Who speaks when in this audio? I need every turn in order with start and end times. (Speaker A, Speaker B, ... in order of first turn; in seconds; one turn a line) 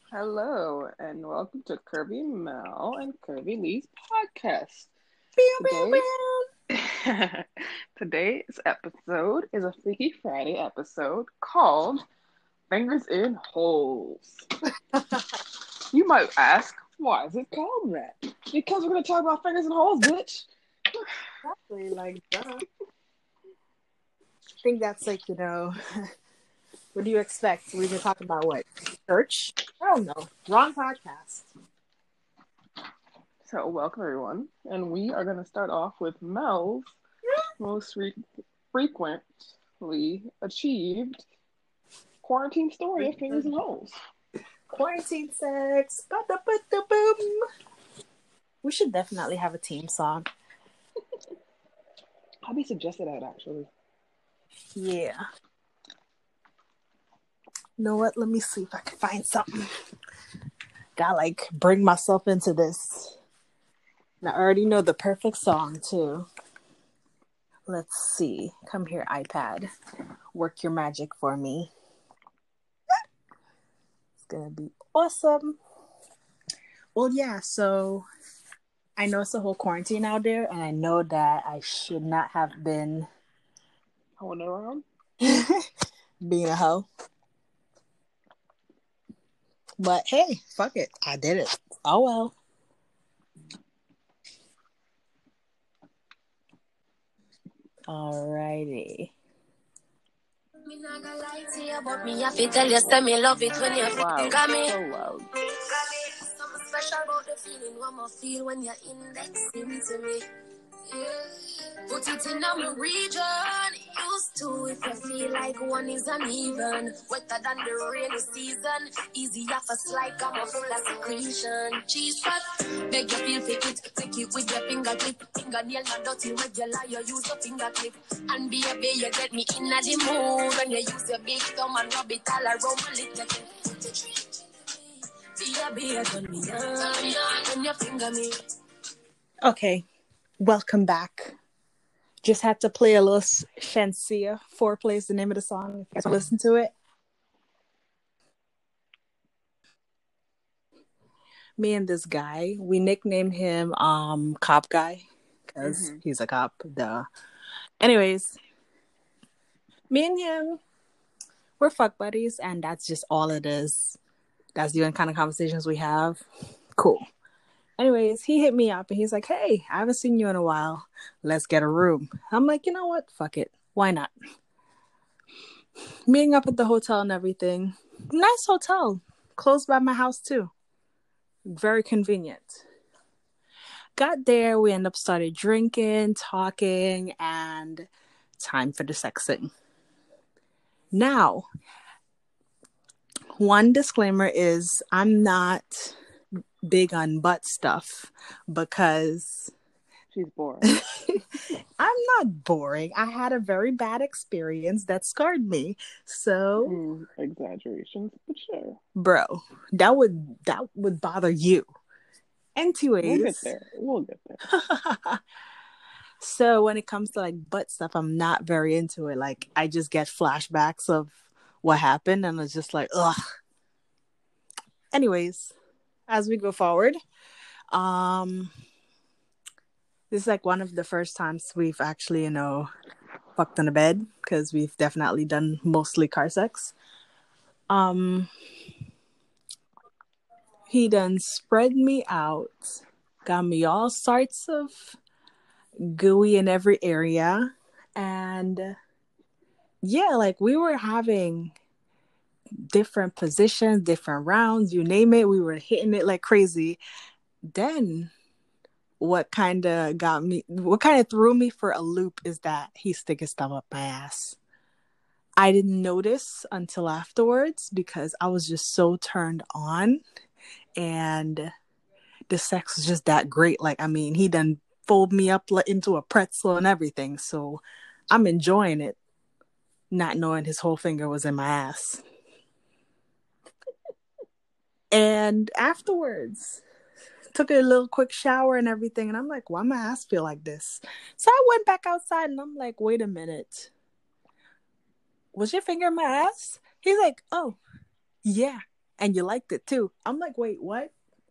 Speaker A: 0.1-4.9
Speaker B: 5.4-6.4
Speaker A: 5.6-6.0
Speaker A: 6.7-12.0
Speaker A: 12.7-14.5
Speaker A: 15.9-21.1
Speaker B: 21.4-22.6
Speaker B: 24.6-25.7
Speaker B: 26.9-31.4
Speaker A: 33.4-36.9
Speaker A: 37.6-38.2
Speaker A: 38.7-39.3
Speaker A: 39.8-41.2
Speaker A: 42.2-43.9
Speaker B: 43.0-43.5
Speaker B: 44.7-47.4
Speaker B: 48.6-50.3
Speaker A: 52.5-53.7
Speaker B: 54.8-55.2
Speaker B: 57.8-59.6
Speaker B: 61.0-63.1
Speaker B: 64.2-66.3
Speaker B: 67.7-69.7
Speaker B: 70.3-71.7
Speaker B: 74.2-75.6
Speaker B: 76.9-78.1
Speaker B: 79.0-83.1
Speaker A: 84.2-84.8
Speaker B: 85.2-85.7
Speaker B: 86.2-86.9
Speaker B: 89.8-92.3
Speaker B: 97.9-99.1
Speaker C: 100.7-104.7
Speaker A: 103.8-105.3
Speaker C: 105.7-110.2
Speaker C: 110.9-134.8
Speaker C: 135.4-138.3
Speaker B: 139.4-139.8
Speaker B: 140.4-141.3
Speaker B: 142.2-146.7
Speaker B: 151.6-157.1
Speaker A: 155.6-156.0
Speaker B: 157.8-158.4
Speaker B: 159.9-160.6
Speaker B: 161.6-164.0
Speaker B: 164.6-166.2
Speaker B: 166.8-167.0
Speaker B: 167.8-174.1
Speaker B: 176.1-180.5
Speaker B: 181.5-182.6
Speaker B: 184.0-189.5
Speaker B: 190.9-191.4
Speaker B: 193.3-196.0
Speaker B: 196.7-199.5
Speaker A: 200.1-200.8
Speaker B: 200.7-201.2
Speaker B: 201.8-206.8
Speaker A: 206.6-208.8
Speaker B: 208.9-211.7
Speaker B: 212.6-213.5
Speaker A: 213.0-214.4
Speaker B: 214.5-215.2
Speaker B: 216.2-223.2
Speaker B: 224.9-225.5
Speaker B: 226.1-227.0
Speaker B: 227.7-228.5
Speaker B: 230.1-232.7
Speaker B: 233.3-236.7
Speaker B: 237.7-238.3
Speaker B: 240.7-245.0
Speaker B: 245.8-248.7
Speaker B: 249.8-251.5
Speaker B: 252.7-256.8
Speaker B: 257.5-258.1
Speaker B: 259.0-264.4
Speaker B: 265.4-270.0
Speaker B: 270.8-271.5
Speaker B: 272.3-279.0
Speaker B: 279.9-282.0
Speaker B: 284.9-286.6
Speaker B: 287.3-293.7
Speaker B: 295.3-297.6
Speaker B: 298.2-300.9